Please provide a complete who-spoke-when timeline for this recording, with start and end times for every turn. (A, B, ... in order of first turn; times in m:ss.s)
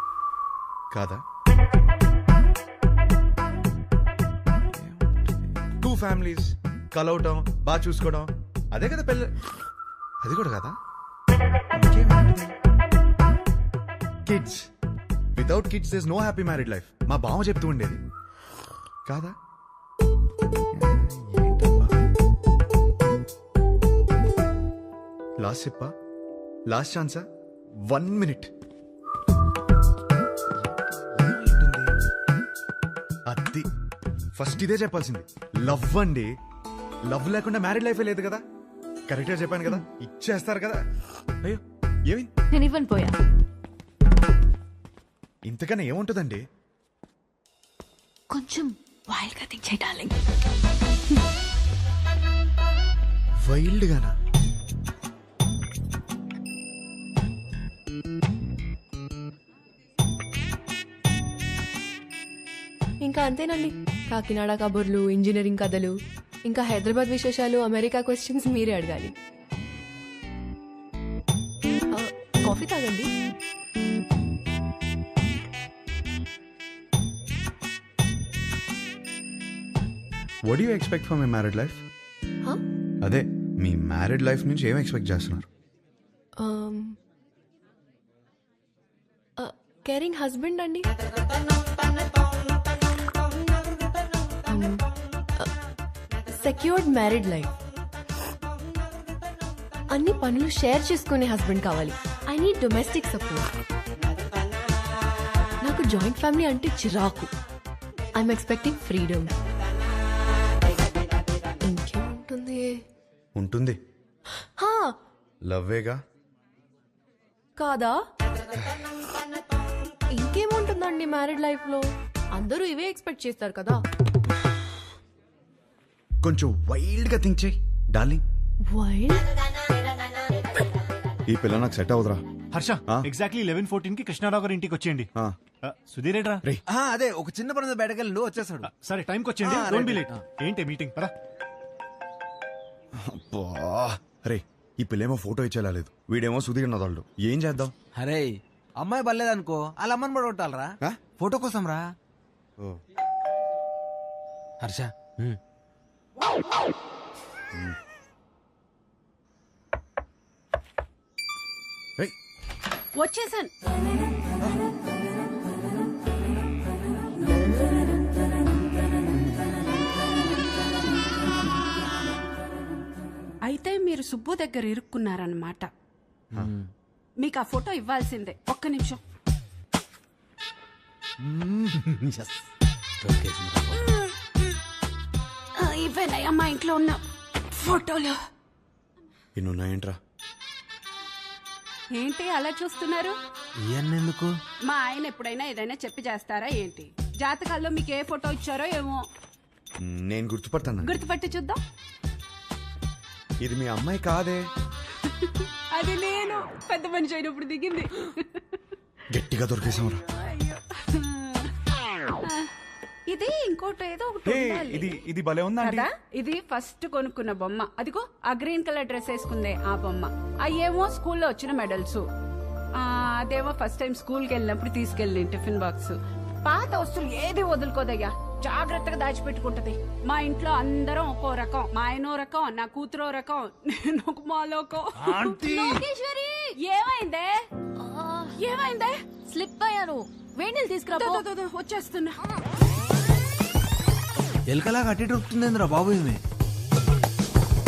0:00.9-0:01.2 A
0:04.7-0:09.3 A
0:10.2-0:10.8 A
0:11.7-0:12.5 A
0:14.2-0:14.7 A
0:15.3-0:18.0 A
0:19.0-0:19.3 A
0:20.7-0:22.1 A
0:25.4-0:25.9 A
0:26.7-0:27.2 A
0:27.9-0:28.5 A
0:30.9-0:31.9 A
0:33.3-0:33.7 A
0:34.4-0:36.3 A
0:37.1-0:38.4 A
0:39.1-0:40.8 A
0:41.4-0:42.3 A
0:42.5-0:43.2 B
0:45.4-0:46.4 A
0:48.3-0:50.2 B
0:53.4-0:54.1 A
1:03.0-1:09.1 C
1:11.9-1:13.1 C
1:20.4-1:21.8 A
1:23.0-1:25.4 A
1:26.4-1:27.0 C
1:29.4-1:30.9 C
1:34.5-1:35.5 C
1:36.3-1:37.5 C
1:39.9-1:43.5 C
1:45.6-1:47.3 C
1:48.2-1:49.3 C
1:51.6-1:52.8 C
1:53.4-1:53.8 A
1:54.6-1:55.0 C
1:55.4-1:56.0 A
1:57.6-1:58.0 C
2:00.1-2:03.8 C
2:06.2-2:08.2 A
2:08.6-2:09.2 C
2:11.3-2:12.2 A
2:12.5-2:15.1 D
2:15.6-2:16.4 D
2:16.7-2:18.7 E
2:18.6-2:21.1 D
2:19.4-2:20.0 A
2:19.8-2:20.2 E
2:23.0-2:27.7 A
2:28.0-2:31.9 E
2:34.6-2:35.4 E
2:43.0-2:43.5 F
2:53.4-2:55.7 F
2:56.4-2:56.6 E
2:57.2-2:59.0 F
3:01.3-3:02.4 E
3:03.0-3:03.8 E
3:05.6-3:08.2 F
3:09.4-3:10.0 A
3:11.9-3:13.2 F
3:13.7-3:14.3 E
3:14.6-3:19.0 F
3:19.8-3:21.0 A
3:20.8-3:21.6 F
3:23.4-3:24.4 A
3:25.0-3:28.6 F
3:29.1-3:30.0 A
3:30.3-3:31.5 F
3:32.2-3:32.5 F
3:33.1-3:35.0 F
3:34.2-3:35.9 A
3:35.6-3:42.0 F
3:42.8-3:55.4 F
3:55.0-3:55.8 E
3:55.3-3:56.5 B
3:56.6-3:57.4 F
3:57.8-3:58.4 B
3:58.3-3:59.0 F
3:59.3-4:01.2 B
4:01.0-4:02.2 F
4:04.5-4:06.2 E